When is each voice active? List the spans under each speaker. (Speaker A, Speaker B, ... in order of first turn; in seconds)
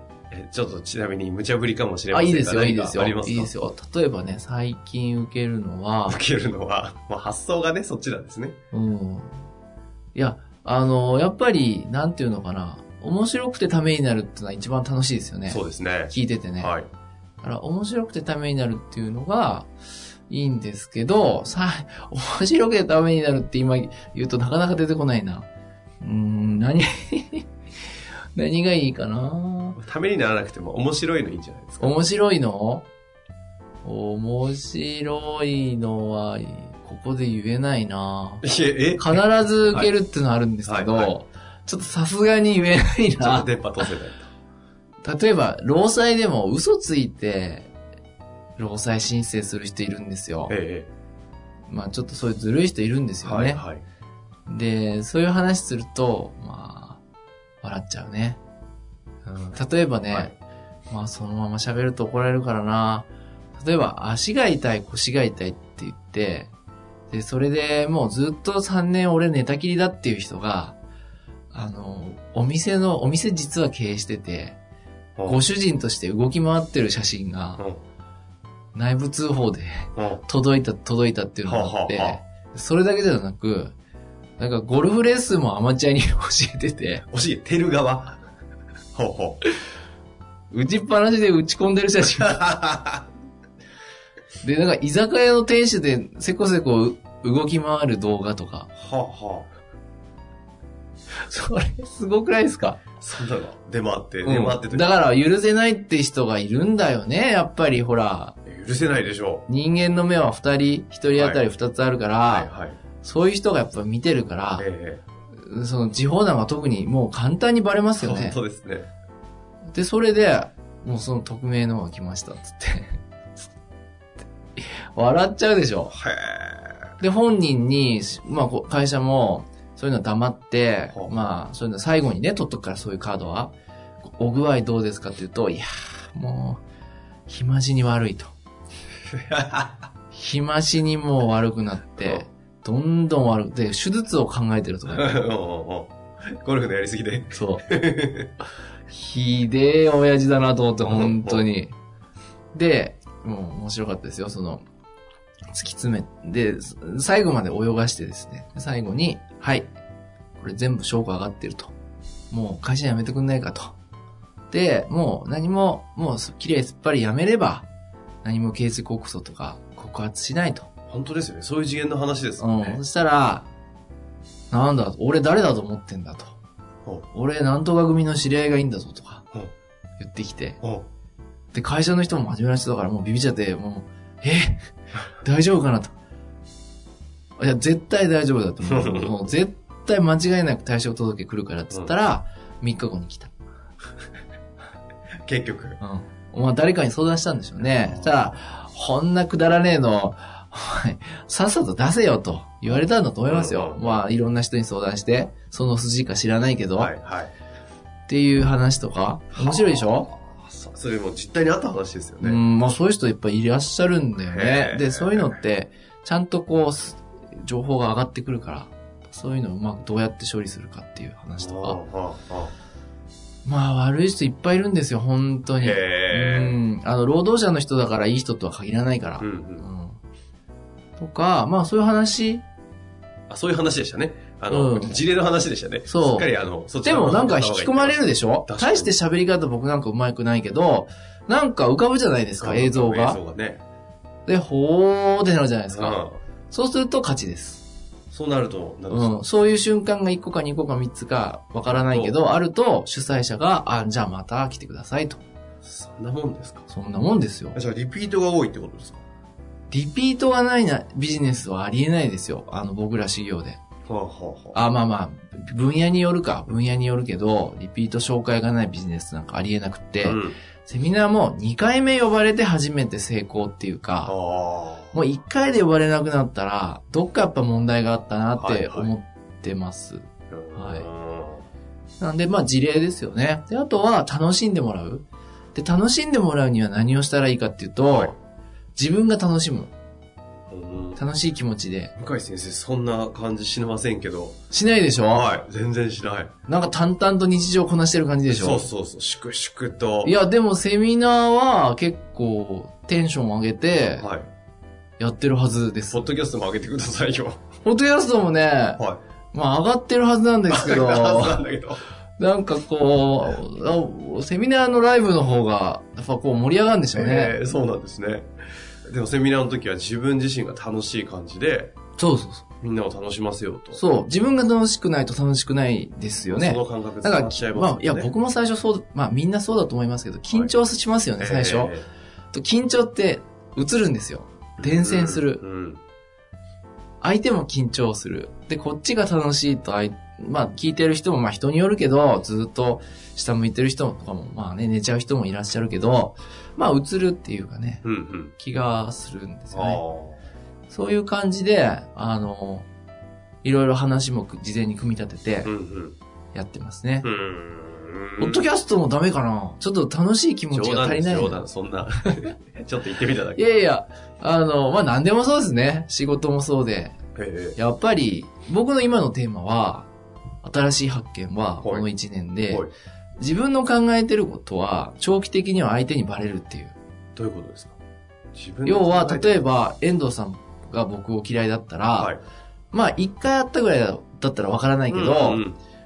Speaker A: 0.3-3.5, 6.1-8.6, 15.5-16.9, 29.8-32.0, 38.4-39.9, 40.7-41.1, 43.2-44.2, 50.5-50.9, 53.2-53.8, 80.0-80.2, 81.5-82.2, 87.1-88.2, 88.9-89.4, 92.2-93.0, 98.8-99.5, 103.0-105.0, 108.5-109.5, 111.1-111.4, 112.2-112.8, 114.6-115.0, 118.0-118.9, 125.9-126.9, 139.1-139.8, 142.0-142.3, 144.9-148.3, 150.9-151.4, 170.9-172.8, 180.6-180.9, 188.6-189.2, 195.2-195.8, 197.6-198.4, 203.3-204.0, 206.8-207.3, 209.3-212.4, 214.2-215.4, 221.4-222.5, 225.6-226.6, 229.2-229.7, 233.3-239.0, 242.4-243.6, 245.7-246.2, 248.1-249.3, 251.9-252.2, 255.6-256.6, 257.5-259.0, 263.9-264.6, 270.0-270.4, 274.1-275.0, 278.4-278.9, 280.3-281.5, 287.9-288.1, 290.5-291.0, 292.0-294.4, 295.1-296.3, 298.3-300.2, 304.0-304.3, 305.9-307.4, 310.5-311.8, 316.9-318.3, 318.9-321.8, 322.6-323.8, 326.3-328.1, 331.2-331.9, 334.6-335.8, 347.8-348.3, 349.5-350.2, 355.4-356.0, 357.0-358.5, 360.5-363.6, 367.1-367.6, 371.6-371.9, 377.2-377.8, 378.4-379.4, 382.0-382.2, 384.9-385.6
Speaker B: 2.1-6.2, 8.7-9.4, 10.2-16.7, 17.4-19.7, 20.3-25.5, 26.0-27.5, 28.4-29.8, 31.8-32.9, 33.8-38.5, 39.0-43.9, 45.0-47.7, 48.6-50.5, 51.7-53.6, 54.5-57.0, 57.6-58.4, 59.2-60.3, 60.9-66.5, 67.1-70.8, 71.5-74.6, 75.3-77.6, 78.7-83.7, 84.4-87.0, 90.5-92.5, 94.4-98.7, 101.2-102.8, 104.2-108.4, 109.5-112.5, 113.0-114.7, 115.4-118.4, 119.7-123.0, 124.6-125.9, 127.0-136.6, 137.3-138.3, 140.1-145.2, 147.3-147.7, 148.9-151.8, 152.5-154.6, 155.5-159.7, 160.4-161.7, 162.3-163.8, 164.5-167.7, 168.2-170.7, 172.4-173.5, 174.5-176.4, 177.1-179.3, 180.0-180.6, 181.5-185.9, 187.4-193.3, 195.8-206.9, 208.1-210.1, 212.2-221.8, 223.4-230.0, 231.0-232.4, 234.5-235.0, 235.9-236.3, 236.8-243.2, 244.3-247.7, 248.9-255.2, 256.7-257.6, 259.7-263.6, 264.5-274.1, 274.9-280.9, 282.0-288.2, 288.8-289.7, 291.0-291.9, 294.5-295.3, 296.5-298.7, 300.0-304.1, 305.0-306.1, 307.6-308.8, 309.3-311.4, 312.2-317.4, 322.0-322.4, 323.8-331.8, 332.3-335.4, 337.0-349.8, 350.7-352.7, 353.4-355.5, 356.3-357.1, 358.2-361.4, 363.4-367.0, 367.6-369.9, 370.4-372.7, 373.2-376.8, 378.6-382.1, 382.7-385.4